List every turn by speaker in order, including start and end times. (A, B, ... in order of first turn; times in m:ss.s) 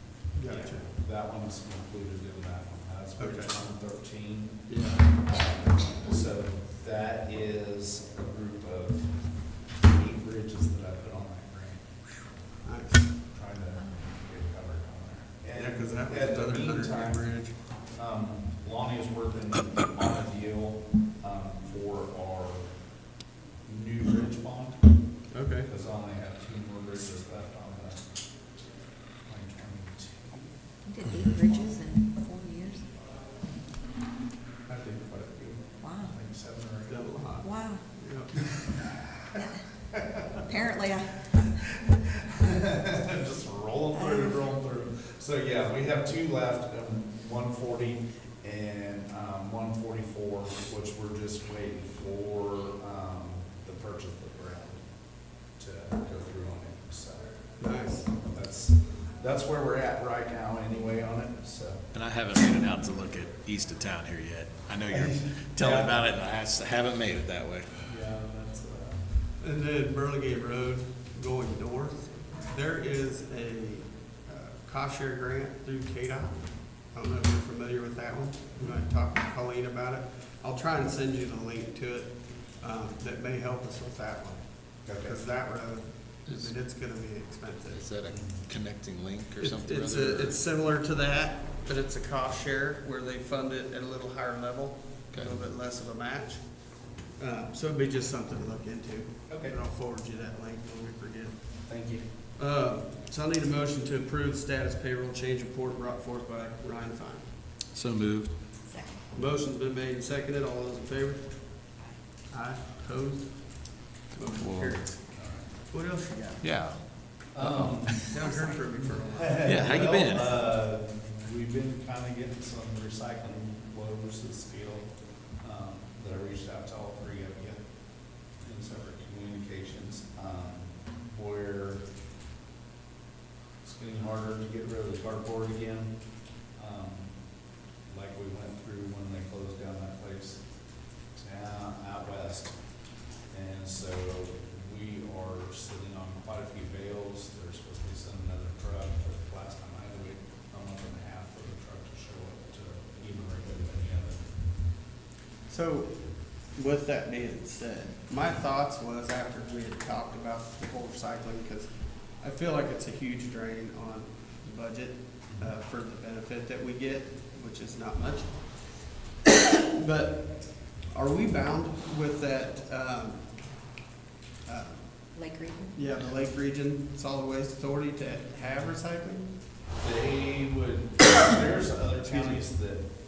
0:00.4-0:00.9 A
0:00.4-0:04.6 B
0:03.2-0:03.6 A
0:04.7-0:05.1 A
0:05.1-0:12.1 B
0:12.6-0:13.2 A
0:13.3-0:22.7 B
0:15.6-0:17.6 A
0:23.6-0:28.1 B
0:25.3-0:25.7 A
0:29.3-0:31.8 B
0:30.9-0:32.8 C
0:34.7-0:37.1 B
0:34.8-0:35.6 A
0:35.8-0:36.1 C
0:36.9-0:38.4 A
0:37.4-0:37.8 C
0:38.4-0:39.4 B
0:39.4-0:39.6 C
0:39.9-0:40.5 B
0:40.4-0:41.2 C
0:41.3-0:54.8 B
0:44.0-0:44.4 C
0:55.5-0:57.3 B
0:57.6-0:58.1 A
0:58.1-1:01.8 B
1:01.9-1:07.9 D
1:04.9-1:06.0 B
1:07.8-1:09.0 B
1:09.4-1:27.8 A
1:24.8-1:25.2 B
1:26.3-1:26.5 D
1:27.7-1:30.4 D
1:28.1-1:28.4 B
1:29.4-1:41.8 A
1:39.3-1:39.6 B
1:41.7-1:42.1 B
1:42.4-1:47.3 A
1:47.7-1:48.3 D
1:48.7-1:49.0 C
1:49.1-1:51.7 A
1:52.3-1:55.0 A
1:54.2-1:54.8 D
1:55.1-1:55.5 B
1:55.7-1:56.5 A
1:56.4-1:58.1 D
1:57.3-1:58.1 B
1:58.0-2:00.0 A
1:58.1-1:58.5 C
1:58.8-2:04.9 B
1:59.4-2:00.3 D
2:05.4-2:07.6 B
2:08.4-2:11.8 B
2:13.6-2:16.0 B
2:16.5-2:17.1 B
2:17.9-2:20.4 B
2:21.1-2:22.6 B
2:23.3-2:34.3 B
2:35.5-2:53.3 A
2:54.4-2:55.1 A
2:55.1-2:55.8 C
2:55.7-2:59.3 A
2:59.8-3:02.8 B
3:02.0-3:02.4 A